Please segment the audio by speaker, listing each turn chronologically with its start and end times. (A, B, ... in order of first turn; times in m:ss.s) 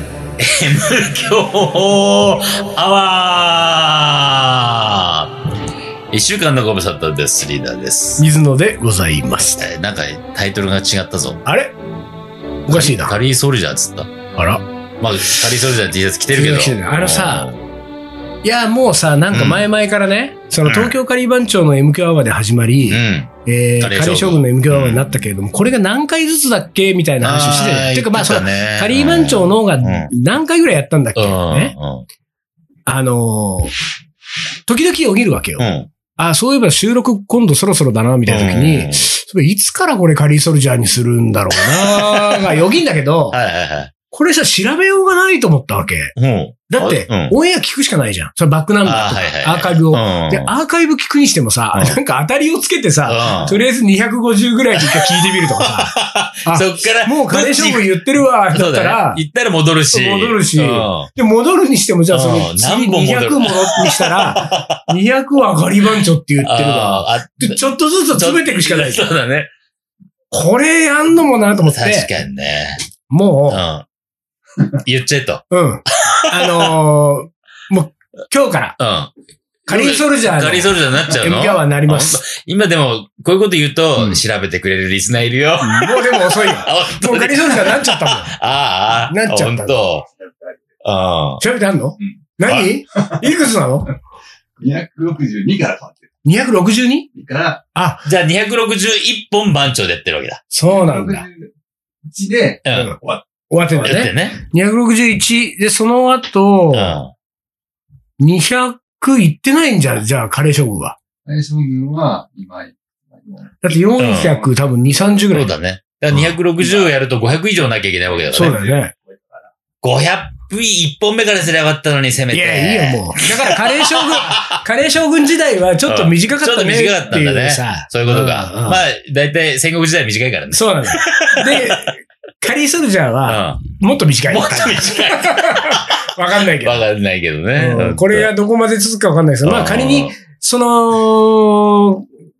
0:00.4-0:05.4 A
0:06.1-0:08.2 A
0:08.2-0:09.6 B
0:09.6-0:11.4 A
0:11.4-0:11.8 B
0:12.7-0:14.1 A
0:12.7-0:13.2 B
0:14.4-0:14.6 B
0:15.0-0:17.6 A
0:16.3-0:17.5 B
0:18.4-0:31.7 B
0:19.3-0:19.6 A
0:20.7-0:21.0 A
0:22.9-0:25.2 A
0:27.2-0:30.1 A
0:31.2-0:32.1 A
0:32.9-0:33.7 B
0:34.7-0:43.4 B
0:35.6-0:35.9 A
0:38.3-0:39.1 A
0:41.6-0:42.5 A
0:43.3-0:43.9 A
0:44.1-0:46.1 B
0:46.2-0:47.4 A
0:46.7-0:59.2 B
0:48.8-0:50.5 A
0:53.0-0:53.6 A
0:54.8-0:57.9 A
0:58.5-1:01.1 A
0:59.9-1:09.1 B
1:02.1-1:04.9 A
1:06.4-1:07.6 A
1:08.1-1:09.5 A
1:10.3-1:12.1 B
1:11.7-1:12.8 A
1:13.1-1:13.6 B
1:13.5-1:13.9 A
1:14.8-1:16.8 A
1:15.5-1:18.8 B
1:18.8-1:19.1 A
1:19.7-1:22.2 B
1:19.7-1:30.1 A
1:25.6-1:28.3 B
1:29.1-1:29.8 B
1:30.8-1:31.4 A
1:31.4-1:33.9 B
1:33.0-1:33.4 C
1:34.6-1:36.1 C
1:36.2-1:37.1 B
1:37.1-1:37.6 C
1:37.7-1:38.1 B
1:38.0-1:40.4 A
1:40.5-1:41.2 B
1:40.7-1:41.5 C
1:42.0-1:43.9 C
1:42.6-1:42.9 A
1:42.7-1:43.0 B
1:43.5-1:47.0 B
1:43.8-1:44.4 A
1:46.7-1:47.1 A
1:48.2-1:51.0 B
1:51.3-1:55.2 C
1:53.6-1:55.5 B
1:54.0-1:54.4 A
1:55.3-1:58.6 A
1:56.6-1:56.9 C
1:58.1-1:59.4 C
1:58.3-1:58.9 B
1:59.8-2:04.6 A
2:02.3-2:08.8 B
2:05.9-2:11.9 A
2:10.5-2:16.8 B
2:13.2-2:13.7 A
2:14.3-2:16.0 A
2:16.5-2:18.3 A
2:17.6-2:22.0 B
2:19.4-2:20.2 A